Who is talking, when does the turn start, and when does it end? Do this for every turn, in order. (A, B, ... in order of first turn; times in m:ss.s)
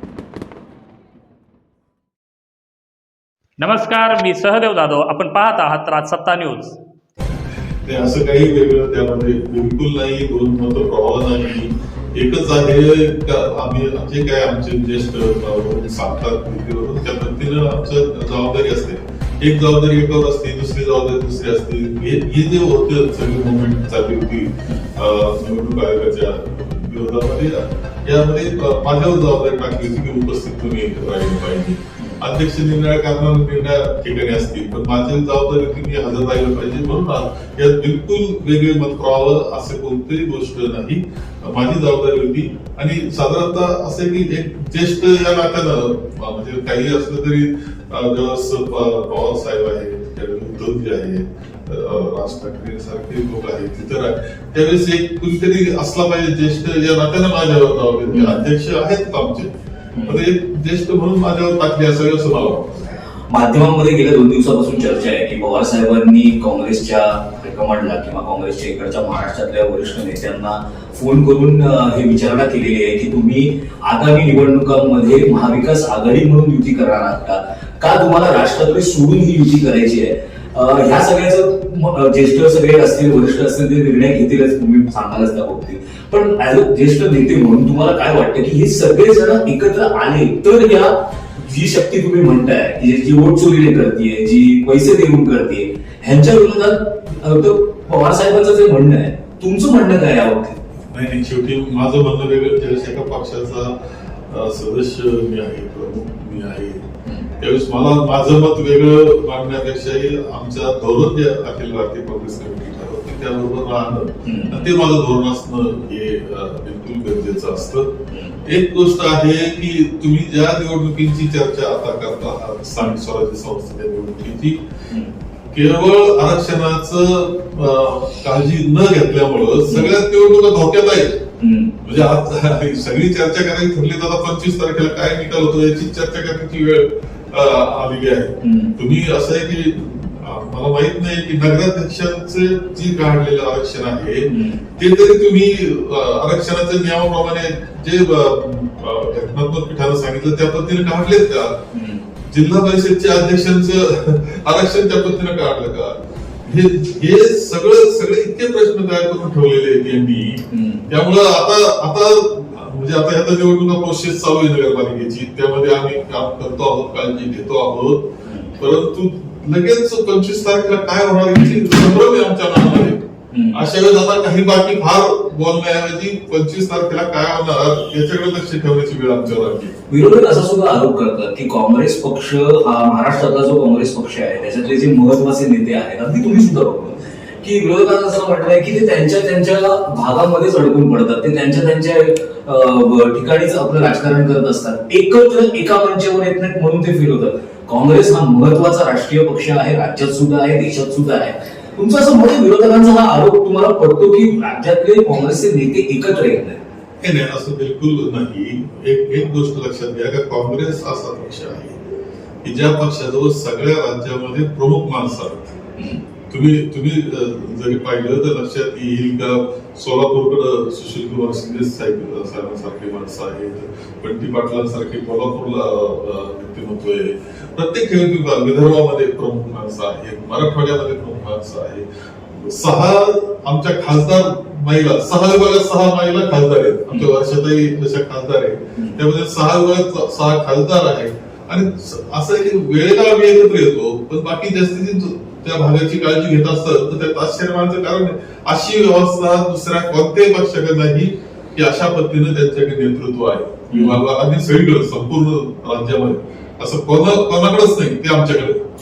0:03.6-0:06.7 A
0:07.8-0:59.5 B
0:58.1-0:58.4 C
0:59.9-1:00.2 C
1:00.1-1:03.0 B
1:03.3-1:40.7 C
1:40.9-1:43.8 B
1:44.3-1:46.8 B
1:47.4-2:04.6 B
1:54.2-1:54.7 C
1:58.1-1:58.4 C
2:05.5-2:11.2 B
2:09.7-2:09.9 C
2:11.4-2:11.8 C
2:11.8-2:31.6 B
2:18.4-2:18.7 C
2:24.3-2:24.6 C
2:31.7-2:32.0 C
2:32.3-2:59.7 B
2:40.5-2:40.9 C
2:48.2-2:48.5 C
2:53.3-2:53.6 C
2:59.9-3:26.6 C
3:27.0-3:31.8 B
3:32.4-3:35.6 B
3:35.8-3:36.0 C
3:36.3-4:18.6 B
4:13.7-4:14.0 C